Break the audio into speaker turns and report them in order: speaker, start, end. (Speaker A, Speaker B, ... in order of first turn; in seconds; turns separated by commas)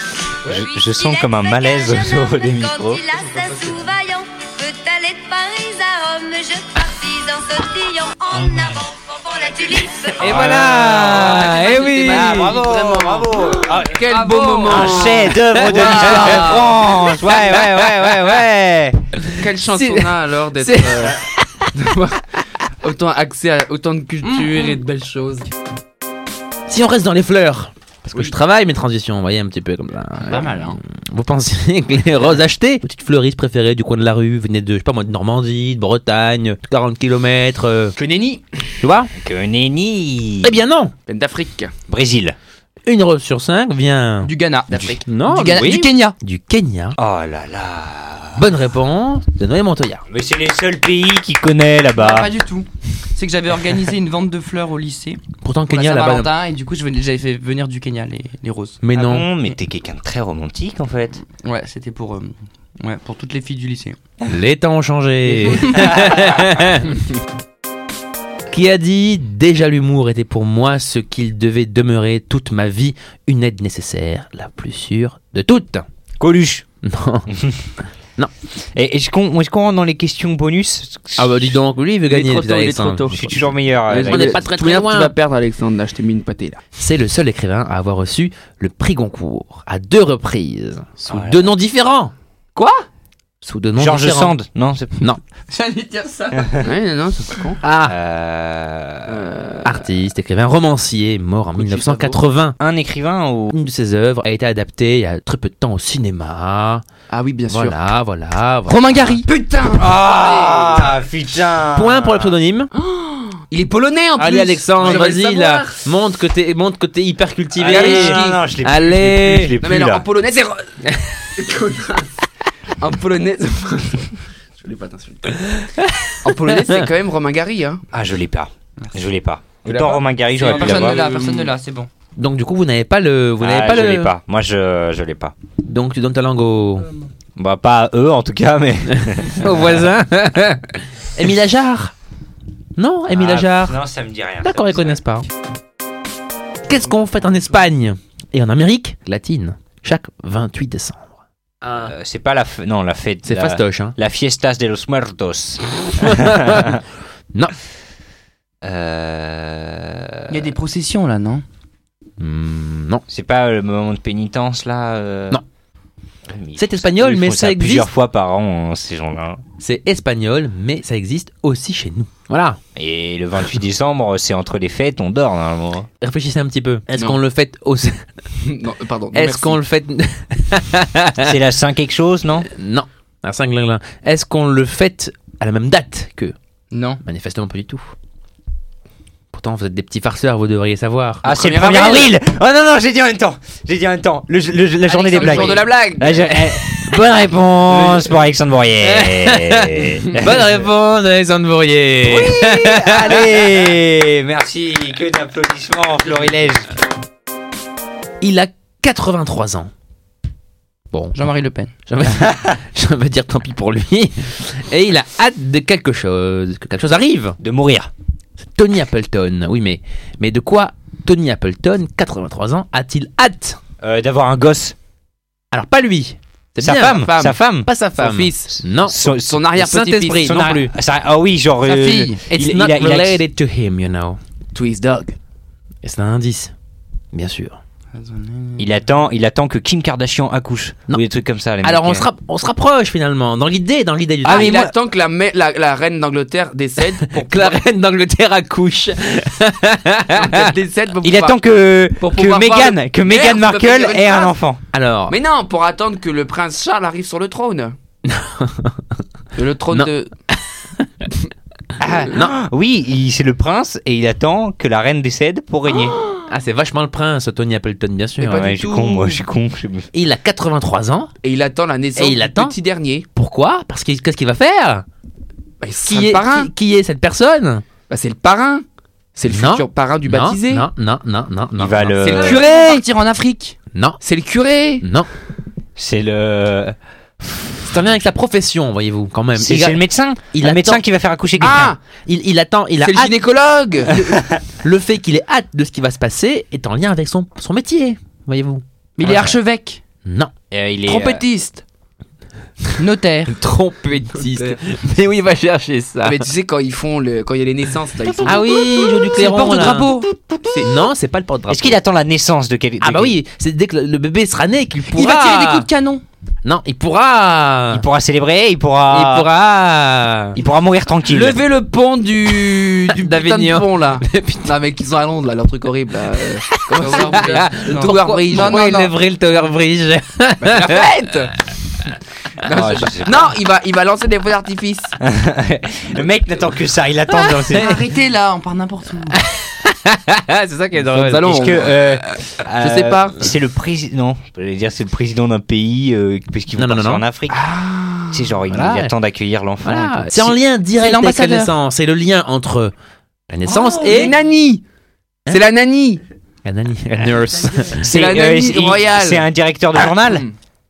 Speaker A: 0.5-3.0, Speaker B: 0.5-10.3, Speaker C: 3.3-3.7, Speaker D: 10.2-12.6, Speaker A: 10.2-14.0, Speaker E: 10.9-12.8, Speaker C: 12.1-16.6, Speaker E: 13.9-16.8, Speaker A: 14.7-19.1, Speaker D: 15.5-16.6, Speaker D: 17.2-18.3, Speaker D: 19.2-21.7, Speaker C: 19.4-25.5, Speaker E: 24.2-24.8, Speaker D: 26.7-38.0, Speaker E: 30.2-30.8, Speaker E: 38.0-38.4, Speaker D: 38.8-39.1, Speaker A: 39.1-40.5, Speaker D: 40.4-40.9, Speaker C: 41.1-41.7, Speaker A: 41.9-42.4, Speaker D: 42.9-44.3, Speaker E: 44.2-46.1, Speaker A: 44.7-45.0, Speaker D: 45.0-47.0, Speaker A: 47.0-48.4, Speaker D: 48.4-50.0, Speaker A: 50.1-52.3, Speaker E: 52.0-58.8, Speaker D: 55.4-56.3, Speaker D: 58.8-59.3, Speaker A: 59.0-61.2, Speaker E: 61.4-64.0, Speaker D: 64.3-67.0, Speaker E: 65.4-65.9, Speaker A: 65.8-66.2, Speaker D: 68.5-75.8, Speaker A: 76.2-76.7, Speaker D: 76.8-77.3, Speaker A: 77.3-77.6, Speaker A: 78.7-81.5, Speaker D: 81.2-83.1, Speaker C: 82.1-86.6, Speaker A: 83.1-84.4, Speaker D: 84.0-85.1, Speaker D: 86.8-92.1, Speaker A: 91.1-91.5, Speaker D: 93.4-94.3, Speaker A: 93.8-95.1, Speaker E: 95.5-96.6, Speaker A: 96.3-96.7, Speaker C: 96.6-97.6, Speaker D: 97.6-98.0, Speaker A: 97.8-99.2, Speaker C: 99.0-99.9, Speaker D: 99.6-102.6, Speaker C: 101.6-102.2, Speaker A: 102.6-103.5, Speaker D: 103.5-106.8, Speaker C: 107.1-107.8, Speaker D: 107.5-109.2, Speaker E: 108.7-109.3, Speaker C: 109.3-110.9, Speaker A: 109.7-112.3, Speaker D: 111.7-112.7, Speaker C: 112.7-115.8, Speaker D: 114.2-119.6, Speaker A: 117.5-120.0, Speaker C: 117.6-118.4, Speaker C: 119.6-122.1, Speaker C: 122.8-125.6, Speaker D: 125.6-126.8, Speaker C: 126.2-127.8, Speaker A: 127.9-131.0, Speaker C: 129.7-131.5, Speaker E: 130.4-131.9, Speaker D: 132.2-134.1, Speaker A: 133.4-135.3, Speaker D: 135.6-136.9, Speaker A: 137.4-139.8, Speaker D: 139.0-141.9, Speaker D: 142.8-143.8, Speaker A: 143.1-145.0, Speaker D: 144.4-145.3, Speaker D: 146.7-151.1, Speaker D: 151.6-151.9, Speaker A: 151.8-156.8, Speaker D: 153.2-153.9, Speaker D: 156.0-156.8, Speaker A: 158.6-160.5, Speaker E: 160.3-161.4, Speaker D: 162.2-163.0, Speaker A: 163.1-165.4, Speaker A: 166.3-169.4, Speaker D: 166.6-167.9, Speaker D: 169.6-172.6, Speaker A: 172.8-175.9, Speaker D: 176.0-178.0, Speaker C: 176.9-177.2, Speaker C: 178.4-179.6, Speaker D: 179.1-181.3, Speaker A: 181.2-182.5, Speaker D: 182.5-186.3, Speaker E: 186.7-187.0, Speaker D: 187.0-187.9, Speaker D: 189.3-191.2, Speaker C: 191.2-192.1, Speaker A: 191.2-200.6, Speaker C: 194.9-196.4, Speaker E: 195.1-195.7, Speaker C: 197.7-198.1, Speaker D: 198.8-203.5, Speaker A: 202.0-206.7, Speaker D: 208.2-209.7, Speaker D: 210.9-211.2, Speaker E: 211.1-211.7, Speaker D: 211.9-217.4, Speaker A: 217.4-217.9, Speaker D: 218.4-223.6, Speaker A: 223.8-224.8, Speaker D: 225.5-230.7, Speaker A: 226.6-227.7, Speaker C: 226.9-227.3, Speaker C: 228.0-228.6, Speaker A: 228.7-229.4, Speaker C: 229.1-230.4, Speaker A: 230.2-233.2, Speaker E: 231.7-232.1, Speaker D: 232.2-234.2, Speaker C: 234.5-235.2, Speaker D: 235.8-236.5, Speaker D: 237.1-237.6, Speaker E: 237.9-238.7, Speaker A: 238.6-242.1, Speaker D: 241.6-244.6, Speaker A: 244.2-244.7, Speaker C: 244.2-247.6, Speaker D: 247.0-250.5, Speaker C: 250.1-251.4, Speaker A: 251.0-254.6, Speaker C: 252.0-254.3, Speaker D: 254.7-255.2, Speaker C: 255.1-257.8, Speaker D: 258.0-258.8, Speaker C: 259.3-260.1, Speaker D: 259.7-260.9, Speaker A: 261.8-266.0, Speaker D: 262.0-262.3, Speaker D: 266.3-268.6, Speaker C: 268.2-269.2, Speaker A: 268.2-269.9, Speaker D: 269.9-271.1, Speaker C: 271.2-273.1, Speaker D: 271.9-272.5, Speaker D: 273.1-274.8, Speaker C: 275.6-276.5, Speaker D: 275.8-277.6, Speaker C: 277.9-280.7, Speaker D: 279.3-282.3, Speaker A: 281.6-282.5, Speaker C: 282.0-282.8, Speaker E: 282.0-283.6, Speaker D: 283.7-284.0, Speaker C: 284.0-284.8, Speaker D: 284.8-285.1, Speaker A: 285.8-288.0, Speaker D: 287.6-290.8, Speaker A: 289.4-291.7, Speaker C: 291.4-291.8, Speaker D: 292.1-293.1, Speaker C: 292.8-294.2, Speaker D: 294.6-299.3, Speaker E: 299.0-299.8, Speaker D: 300.1-300.3, Speaker A: 300.5-301.2, Speaker E: 300.9-301.6, Speaker C: 300.9-301.6, Speaker E: 302.8-303.3, Speaker D: 303.3-306.2, Speaker C: 304.1-304.6, Speaker C: 306.0-309.2, Speaker D: 308.2-309.9, Speaker E: 308.5-310.1, Speaker C: 310.2-310.7, Speaker D: 310.6-311.8, Speaker A: 311.5-313.2, Speaker D: 312.8-315.7, Speaker E: 314.9-316.0, Speaker D: 316.4-317.8, Speaker A: 317.7-319.3, Speaker D: 318.9-320.4, Speaker A: 320.3-321.4, Speaker C: 321.1-328.9, Speaker D: 322.3-324.5, Speaker D: 326.4-330.9, Speaker E: 326.8-328.9, Speaker C: 330.4-331.3, Speaker C: 332.4-335.0, Speaker A: 332.5-333.3, Speaker A: 335.0-337.8, Speaker E: 337.3-339.2, Speaker D: 339.1-341.6, Speaker C: 340.8-342.0, Speaker A: 341.3-347.4, Speaker C: 342.6-343.1, Speaker D: 346.6-347.0, Speaker C: 347.3-348.3, Speaker A: 348.1-350.3, Speaker D: 348.5-348.9, Speaker D: 349.6-352.7, Speaker E: 350.8-351.5, Speaker D: 353.3-354.1, Speaker C: 353.5-354.6, Speaker C: 355.3-356.0, Speaker D: 356.4-357.8, Speaker A: 357.8-360.2, Speaker C: 357.8-359.2, Speaker C: 359.8-360.3